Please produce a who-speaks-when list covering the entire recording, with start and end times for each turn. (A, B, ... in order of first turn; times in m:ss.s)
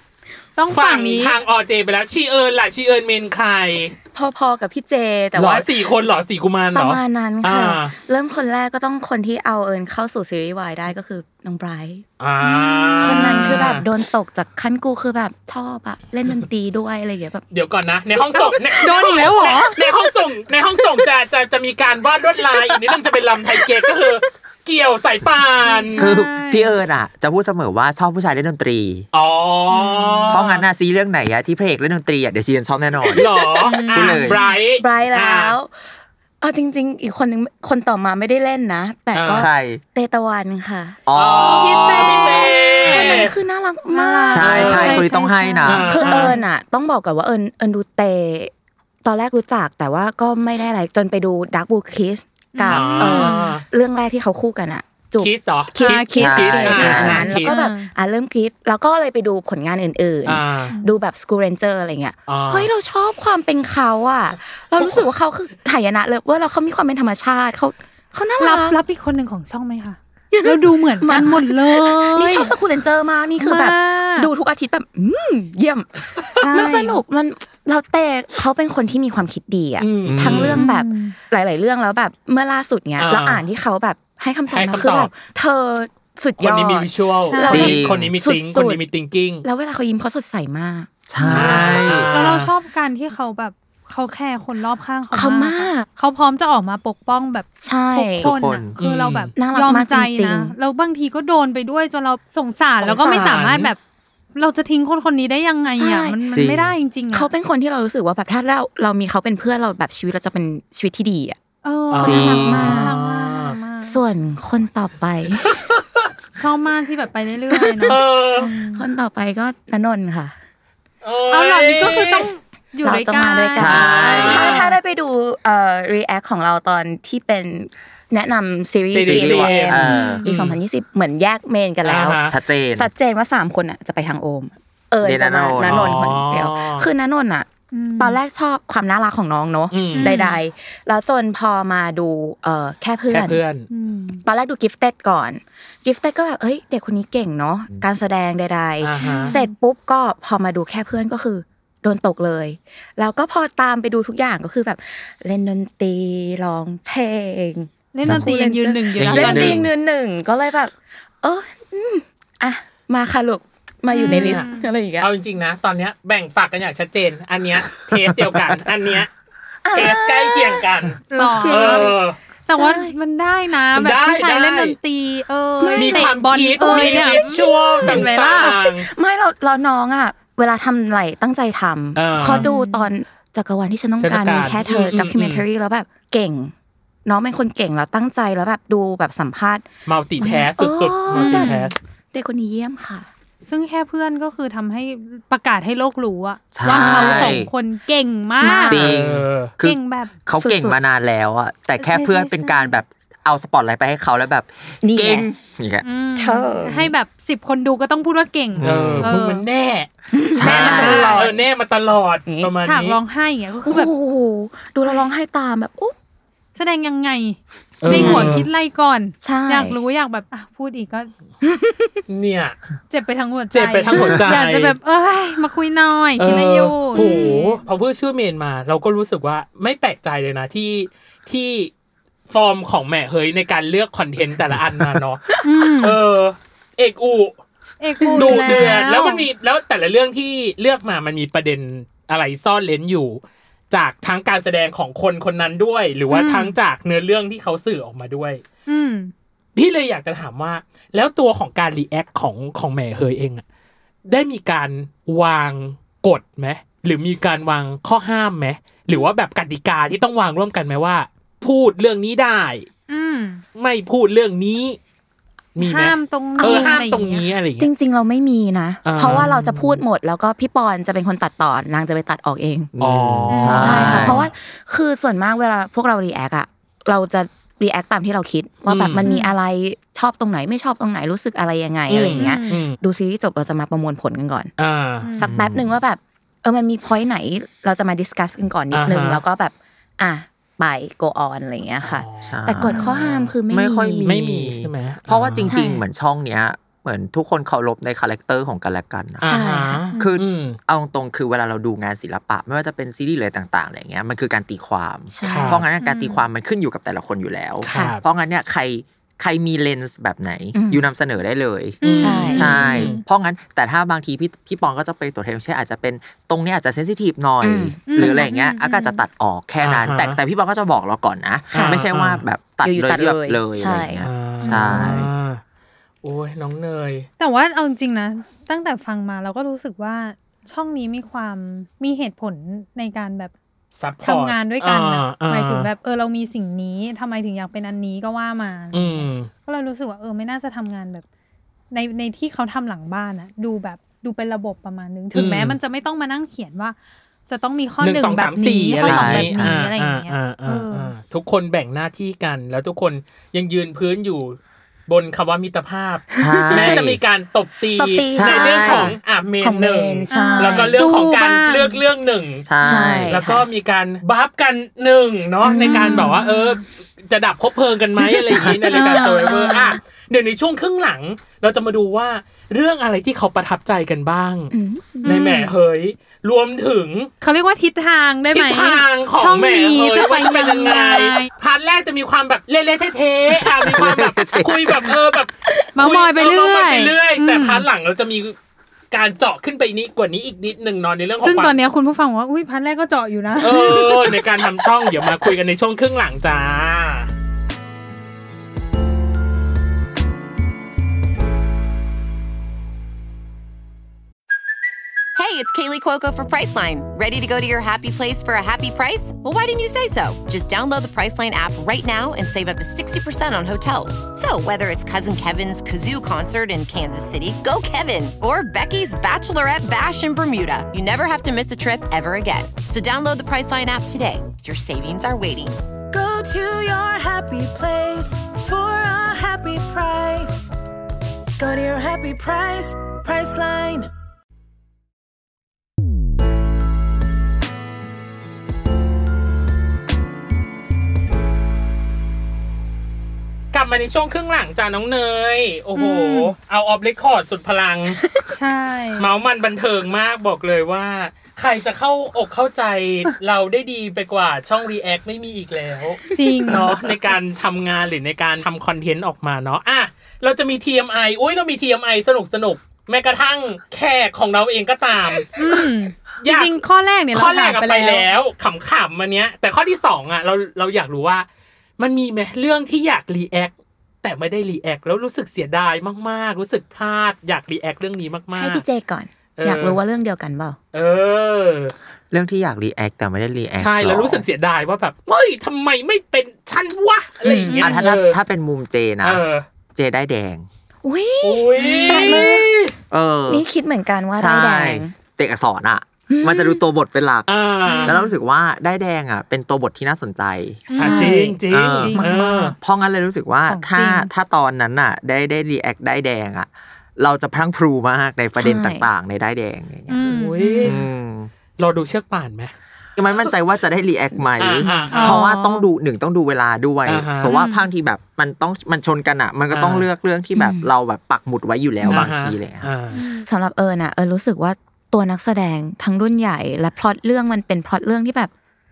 0:00.6-0:01.4 A
0:00.7-0:04.0 B
0:04.1-0:05.7 C
0:05.4-0:08.0 B
0:06.7-0:12.0 C
0:12.2-0:13.9 B
0:12.4-0:13.7 A
0:13.0-0:17.4 C
0:17.5-0:26.0 B
0:18.3-0:19.8 A
0:25.6-0:26.7 A
0:26.0-0:29.1 D
0:29.1-0:30.6 B
0:29.7-0:30.4 A
0:30.3-0:33.3 D
0:33.2-0:35.6 B
0:33.6-0:34.5 A
0:33.9-0:34.4 D
0:34.8-0:35.7 C
0:36.4-0:41.0 C
0:39.1-0:39.5 B
0:39.3-0:39.8 D
0:41.1-0:42.5 D
0:41.2-0:43.4 B
0:41.4-0:43.3 A
0:42.8-0:48.5 C
0:43.9-0:46.4 A
0:44.3-0:46.3 D
0:44.5-0:45.0 B
0:45.7-0:46.4 B
0:49.0-1:08.8 C
0:52.5-0:53.6 A
0:52.7-0:53.6 B
0:55.2-0:57.6 B
0:55.8-0:57.9 A
0:56.2-0:57.3 D
1:00.2-1:00.7 B
1:02.3-1:02.7 B
1:04.8-1:05.1 B
1:08.4-1:12.5 A
1:10.3-1:28.8 C
1:13.4-1:14.3 A
1:16.4-1:17.0 A
1:19.8-1:20.6 B
1:20.1-1:20.6 D
1:20.5-1:21.2 A
1:23.0-1:23.4 B
1:24.5-1:25.1 B
1:26.4-1:29.5 B
1:27.2-1:27.7 A
1:27.5-1:28.1 D
1:29.4-1:31.8 C
1:31.1-1:32.1 D
1:31.2-1:31.5 A
1:31.3-1:32.5 B
1:32.1-1:43.8 A
1:35.1-1:35.9 C
1:37.6-1:38.4 C
1:38.2-1:38.8 D
1:38.8-1:39.3 B
1:39.4-1:40.5 C
1:42.8-1:43.7 B
1:42.9-1:43.4 C
1:44.4-1:47.3 A
1:45.7-1:46.2 C
1:46.3-1:46.7 D
1:47.1-1:51.4 C
1:51.6-1:54.0 A
1:51.9-1:53.6 B
1:52.0-1:52.9 C
1:52.0-1:52.9 D
1:53.8-1:55.6 C
1:55.5-1:56.1 B
1:56.4-1:58.8 A
1:57.9-1:58.5 B
1:58.6-2:00.4 C
2:01.0-2:02.3 B
2:01.3-2:04.7 A
2:02.8-2:17.5 C
2:03.6-2:04.6 D
2:03.6-2:04.7 B
2:08.9-2:10.6 B
2:09.0-2:10.2 D
2:09.8-2:10.3 A
2:11.8-2:12.4 B
2:12.3-2:12.9 D
2:15.0-2:16.1 D
2:15.6-2:16.9 B
2:17.7-2:18.2 A
2:18.0-2:23.4 C
2:19.7-2:20.3 B
2:19.9-2:20.4 A
2:23.1-2:23.7 B
2:23.7-2:24.2 A
2:24.3-2:45.1 C
2:28.8-2:29.4 B
2:29.0-2:29.5 A
2:37.9-2:39.6 A
2:38.0-2:38.3 D
2:39.0-2:39.7 D
2:43.9-2:44.7 A
2:44.0-2:44.5 B
2:45.0-2:49.1 B
2:48.3-2:48.6 D
2:49.6-2:50.7 C
2:49.7-2:52.2 B
2:51.1-2:51.9 A
2:51.2-2:52.0 C
2:52.5-2:58.6 A
2:52.5-2:53.0 C
2:53.7-2:54.8 B
2:55.6-3:06.5 C
2:55.8-2:58.9 B
3:02.0-3:02.5 B
3:02.2-3:02.9 A
3:04.0-3:05.4 B
3:07.1-3:09.6 C
3:09.9-3:11.8 B
3:10.2-3:13.1 C
3:11.1-3:11.7 A
3:13.5-3:18.8 A
3:16.5-3:17.5 D
3:16.7-3:17.1 B
3:16.7-3:17.4 C
3:18.4-3:18.9 C
3:18.6-3:25.8 D
3:18.7-3:19.5 B
3:19.6-3:20.2 A
3:20.4-3:20.8 C
3:21.8-3:22.7 A
3:24.8-3:25.3 C
3:25.8-3:29.4 A
3:26.2-3:26.9 C
3:28.6-3:29.1 D
3:28.6-3:33.0 B
3:30.1-3:31.4 C
3:30.3-3:31.3 D
3:32.3-3:32.5 C
3:32.6-3:33.9 A
3:33.6-3:36.0 C
3:36.6-3:41.1 A
3:37.8-3:38.5 B
3:37.9-3:38.4 C
3:39.2-3:39.8 C
3:41.4-3:42.0 C
3:42.1-3:42.6 B
3:42.9-3:47.6 A
3:43.5-3:44.8 B
3:46.2-3:51.7 B
3:46.9-3:47.4 C
3:52.3-3:55.3 B
3:55.4-3:56.0 A
3:55.8-3:57.4 B
3:57.8-3:59.2 A
3:58.0-3:58.8 C
3:58.2-4:03.2 B
4:03.7-4:08.4 B
4:06.1-4:06.6 A
4:08.7-4:09.1 A
4:09.6-4:13.4 B
4:14.1-4:22.7 B
4:22.9-4:23.4 A
4:23.6-4:24.8 B
4:25.6-4:27.7 B
4:25.6-4:27.3 A
4:26.4-4:26.8 C
4:27.6-4:32.7 C
4:28.8-4:29.8 B
4:32.8-4:34.3 D
4:32.8-4:34.3 B
4:33.3-4:34.2 A
4:33.6-4:44.5 C
4:38.7-4:39.1 B
4:39.0-4:39.4 A
4:41.9-4:42.8 B
4:42.1-4:42.6 A
4:44.6-4:45.1 B
4:45.0-4:45.3 A
4:45.2-4:54.1 C
4:45.2-4:45.7 D
4:48.7-4:49.2 B
4:51.8-4:53.3 B
4:52.3-4:52.9 D
4:53.5-4:59.4 D
4:54.0-4:55.5 B
4:55.5-4:55.8 C
4:59.2-5:00.6 B
4:59.2-5:00.0 C
5:00.0-5:25.1 D
5:05.1-5:05.7 C
5:05.2-5:05.6 B
5:05.8-5:06.2 A
5:07.6-5:08.0 B
5:10.5-5:10.9 C
5:11.8-5:13.0 A
5:11.8-5:12.9 B
5:12.0-5:12.9 C
5:17.4-5:18.4 C
5:17.9-5:19.0 A
5:19.6-5:20.2 B
5:21.5-5:22.2 B
5:21.5-5:21.8 C
5:22.6-5:24.1 C
5:24.0-5:25.4 B
5:24.4-5:24.7 A
5:24.7-5:25.0 C
5:26.0-5:27.1 B
5:27.2-5:33.3 A
5:33.8-5:35.7 B
5:34.0-5:41.0 A
5:38.7-5:39.3 B
5:41.7-5:46.8 A
5:45.1-5:45.6 B
5:47.3-5:50.9 A
5:47.8-6:14.5 B
5:48.8-5:49.6 D
5:56.2-5:56.8 C
5:56.2-5:57.0 D
5:57.8-6:00.8 C
5:58.1-5:59.0 D
6:00.1-6:01.8 A
6:02.5-6:03.2 D
6:02.6-6:03.4 C
6:05.4-6:06.2 C
6:05.5-6:06.6 A
6:08.2-6:09.7 C
6:08.7-6:09.8 A
6:14.5-6:15.4 C
6:15.0-6:15.5 A
6:15.0-6:17.1 B
6:17.2-6:21.3 A
6:18.3-6:28.4 B
6:23.5-6:25.0 D
6:25.8-6:27.7 A
6:28.9-6:31.6 B
6:31.2-6:34.1 A
6:33.4-6:37.1 B
6:45.2-7:05.6 E
7:05.9-7:10.5 F
7:11.4-7:13.9 F
7:23.5-7:28.0 B
7:25.7-7:26.3 A
7:28.3-7:29.1 A
7:29.0-7:45.7 B
7:36.1-7:36.7 A
7:45.4-7:48.1 A
7:46.2-7:51.3 B
7:51.8-7:58.6 B
7:58.4-8:00.6 C
7:59.4-7:59.8 B
8:00.7-8:01.7 B
8:02.1-8:04.2 D
8:03.6-8:08.2 B
8:07.2-8:07.8 C
8:07.5-8:09.2 D
8:09.0-8:09.4 B
8:09.7-8:10.5 D
8:10.8-8:12.5 C
8:11.2-8:12.7 B
8:11.6-8:12.2 A
8:12.9-8:13.4 D
8:13.3-8:14.9 C
8:14.1-8:17.3 D
8:16.1-8:16.6 C
8:17.3-8:18.0 B
8:17.7-8:17.9 A
8:17.8-8:20.7 D
8:17.8-8:18.1 C
8:20.7-8:21.2 A
8:20.7-8:21.4 C
8:20.7-8:22.6 B
8:21.5-8:22.0 D
8:21.7-8:22.5 A
8:22.0-8:22.4 C
8:22.6-8:30.0 D
8:23.5-8:24.1 A
8:28.4-8:28.9 C
8:29.9-8:30.8 A
8:30.0-8:30.8 B
8:30.6-8:31.3 D
8:31.6-8:32.6 B
8:33.0-8:42.7 D
8:34.4-8:35.2 B
8:34.7-8:35.1 C
8:34.7-8:35.7 A
8:36.9-8:37.3 B
8:37.2-8:37.7 A
8:39.5-8:39.9 B
8:40.4-8:40.7 C
8:41.8-8:43.0 B
8:42.9-8:43.3 A
8:43.2-8:48.3 C